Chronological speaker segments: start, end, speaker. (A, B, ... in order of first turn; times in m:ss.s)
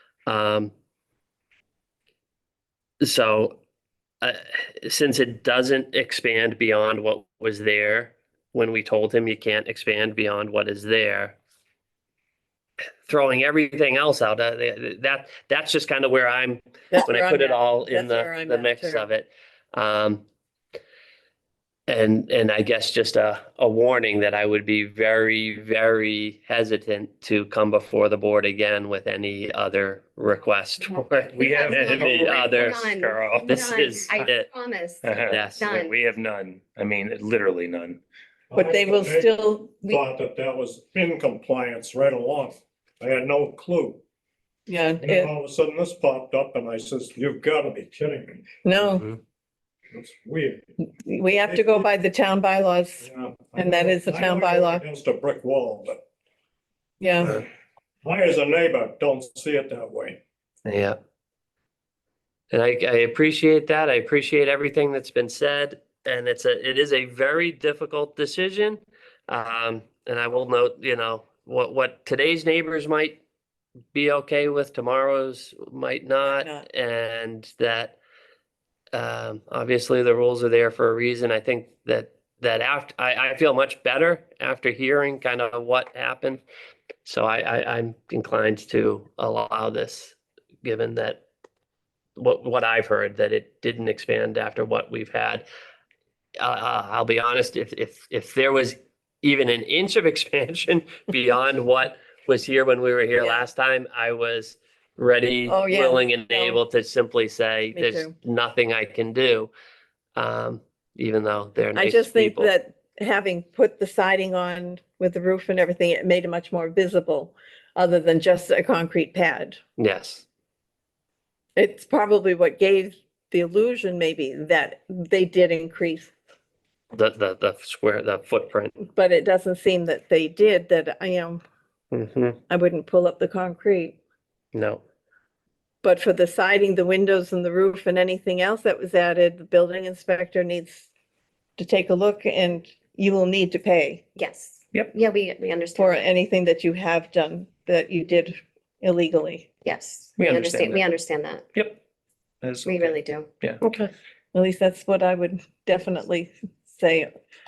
0:00.3-0:00.7 A
0:03.0-0:03.6 A
0:04.2-0:11.4 A
0:13.0-0:20.2 A
0:16.9-0:19.0 B
0:21.9-0:34.5 A
0:31.3-0:34.3 C
0:31.4-0:36.0 D
0:35.0-0:38.0 C
0:35.3-0:35.7 A
0:38.5-0:44.0 E
0:38.6-0:40.0 B
0:44.7-0:45.3 B
0:45.0-0:48.4 E
0:48.6-0:49.1 B
0:49.9-0:51.9 E
0:51.1-0:53.0 B
0:53.0-0:56.0 E
0:53.6-0:54.8 B
0:57.0-0:57.4 B
0:58.0-1:00.2 E
1:00.6-1:01.0 A
1:02.5-1:13.2 A
1:13.9-1:18.0 A
1:18.9-1:26.4 A
1:27.0-1:31.2 A
1:32.2-1:35.4 A
1:36.4-1:49.5 A
1:45.5-1:46.6 B
1:47.7-1:48.1 B
1:50.2-1:52.5 A
1:51.7-1:59.6 B
1:59.8-2:00.2 A
2:01.6-2:06.1 B
2:06.9-2:08.8 A
2:08.8-2:11.4 B
2:11.9-2:12.4 A
2:12.5-2:14.0 B
2:14.5-2:14.8 A
2:15.8-2:20.9 B
2:21.6-2:24.0 B
2:24.2-2:26.0 D
2:25.7-2:29.5 B
2:29.6-2:31.4 D
2:30.2-2:30.9 C
2:31.5-2:31.8 C
2:32.4-2:33.6 C
2:32.6-2:33.3 D
2:33.6-2:33.9 A
2:34.3-2:37.1 B